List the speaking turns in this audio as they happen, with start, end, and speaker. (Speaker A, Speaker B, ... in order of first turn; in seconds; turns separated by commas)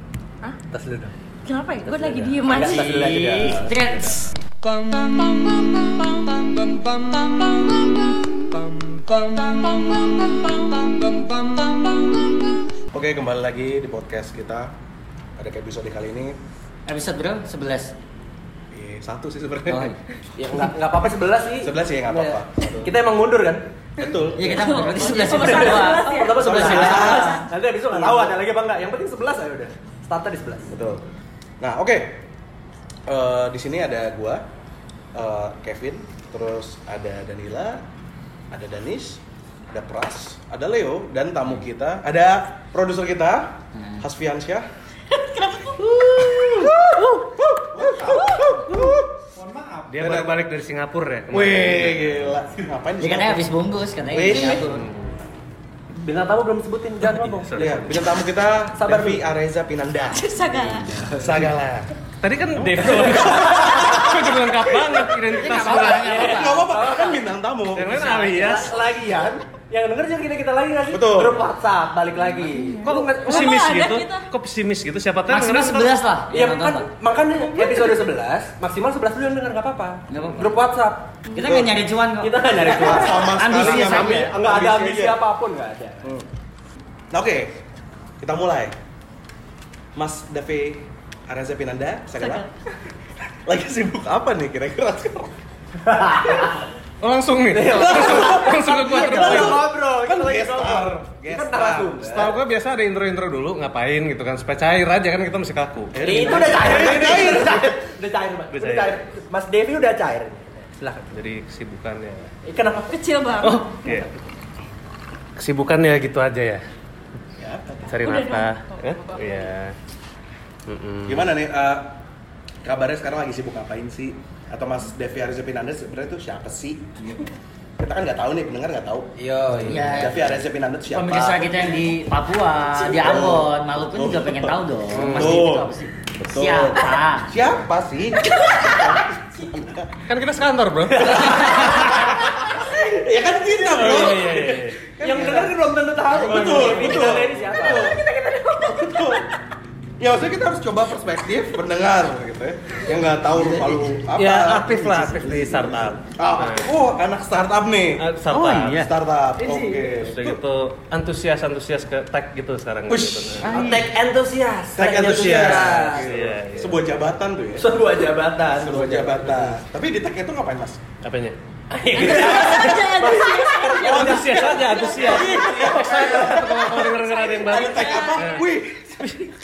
Speaker A: 0.7-1.1, Speaker B: 1.4-3.1, Speaker A: 1.8-3.7, Speaker C: 2.5-4.3, Speaker D: 2.7-4.1, Speaker B: 5.2-5.7, Speaker C: 9.5-10.2, Speaker C: 11.0-11.8, Speaker E: 12.9-14.7, Speaker E: 15.4-16.4, Speaker C: 16.9-17.9, Speaker E: 18.7-19.9, Speaker A: 20.4-23.7, Speaker E: 21.6-22.9, Speaker E: 24.0-24.6, Speaker B: 24.2-27.3, Speaker C: 24.3-27.4, Speaker A: 25.2-30.6, Speaker E: 26.3-28.4, Speaker E: 30.7-31.0, Speaker E: 31.6-32.2, Speaker E: 33.1-34.4, Speaker E: 35.1-37.8, Speaker E: 38.5-44.6, Speaker C: 43.7-44.0, Speaker B: 45.1-45.8, Speaker E: 45.8-50.4, Speaker D: 49.9-52.3, Speaker E: 51.3-53.4, Speaker C: 53.0-54.7, Speaker E: 54.1-54.7, Speaker D: 54.6-55.2, Speaker A: 55.9-58.0, Speaker D: 57.0-58.0, Speaker E: 57.5-61.9, Speaker A: 58.8-59.2, Speaker B: 60.1-60.9, Speaker A: 60.8-61.4, Speaker D: 62.2-66.3, Speaker E: 62.5-64.3, Speaker A: 62.9-63.8, Speaker C: 65.3-67.1, Speaker E: 65.5-68.0, Speaker A: 65.7-67.2, Speaker D: 67.7-68.8, Speaker C: 68.0-68.7, Speaker A: 68.2-73.6, Speaker E: 70.9-71.4, Speaker C: 72.4-72.8, Speaker D: 72.8-75.9, Speaker B: 73.2-74.3, Speaker C: 75.3-76.9, Speaker A: 76.3-81.2, Speaker B: 77.5-78.0, Speaker C: 80.1-80.6, Speaker C: 81.3-84.3, Speaker E: 81.4-81.8, Speaker A: 82.2-86.1, Speaker E: 82.7-85.2, Speaker E: 87.1-87.6, Speaker E: 88.2-88.7, Speaker E: 90.0-92.5, Speaker B: 92.2-92.5, Speaker E: 93.5-95.3, Speaker A: 95.8-96.6, Speaker D: 97.0-99.7, Speaker A: 97.5-102.3, Speaker E: 97.7-102.2, Speaker D: 102.0-106.0, Speaker E: 105.9-107.8, Speaker A: 106.0-111.1, Speaker D: 108.5-109.0, Speaker D: 111.1-112.3, Speaker A: 112.5-113.0, Speaker B: 112.9-113.7, Speaker D: 113.4-114.1, Speaker D: 115.4-116.6, Speaker E: 117.4-117.9, Speaker D: 117.9-119.8, Speaker B: 118.0-119.5, Speaker D: 120.7-121.3, Speaker E: 121.1-122.0, Speaker E: 122.6-127.3, Speaker E: 127.8-129.1, Speaker A: 129.2-130.1, Speaker E: 129.6-131.9, Speaker C: 129.7-130.3, Speaker C: 130.9-137.3, Speaker E: 132.8-140.0, Speaker D: 134.9-135.6, Speaker B: 138.3-138.8, Speaker D: 140.1-142.3, Speaker A: 141.0-141.9, Speaker E: 141.0-148.0, Speaker A: 142.7-148.1, Speaker D: 143.7-144.8, Speaker C: 146.2-146.9, Speaker D: 146.8-147.3, Speaker B: 147.8-149.1, Speaker E: 148.8-149.3, Speaker E: 150.0-154.8, Speaker A: 153.4-153.7, Speaker D: 154.1-156.7, Speaker A: 155.0-155.3, Speaker E: 156.1-158.0, Speaker D: 158.0-158.8, Speaker C: 158.3-158.9, Speaker E: 158.7-160.4, Speaker A: 159.4-159.8, Speaker D: 159.9-163.5, Speaker E: 162.9-163.5, Speaker C: 163.4-163.9, Speaker A: 163.5-166.0, Speaker E: 164.7-167.7, Speaker D: 165.0-166.8, Speaker A: 167.6-169.5, Speaker E: 168.5-170.8, Speaker D: 171.0-171.4, Speaker A: 171.7-176.8, Speaker B: 171.9-174.1, Speaker E: 173.8-179.3, Speaker D: 173.8-178.5, Speaker B: 177.2-178.4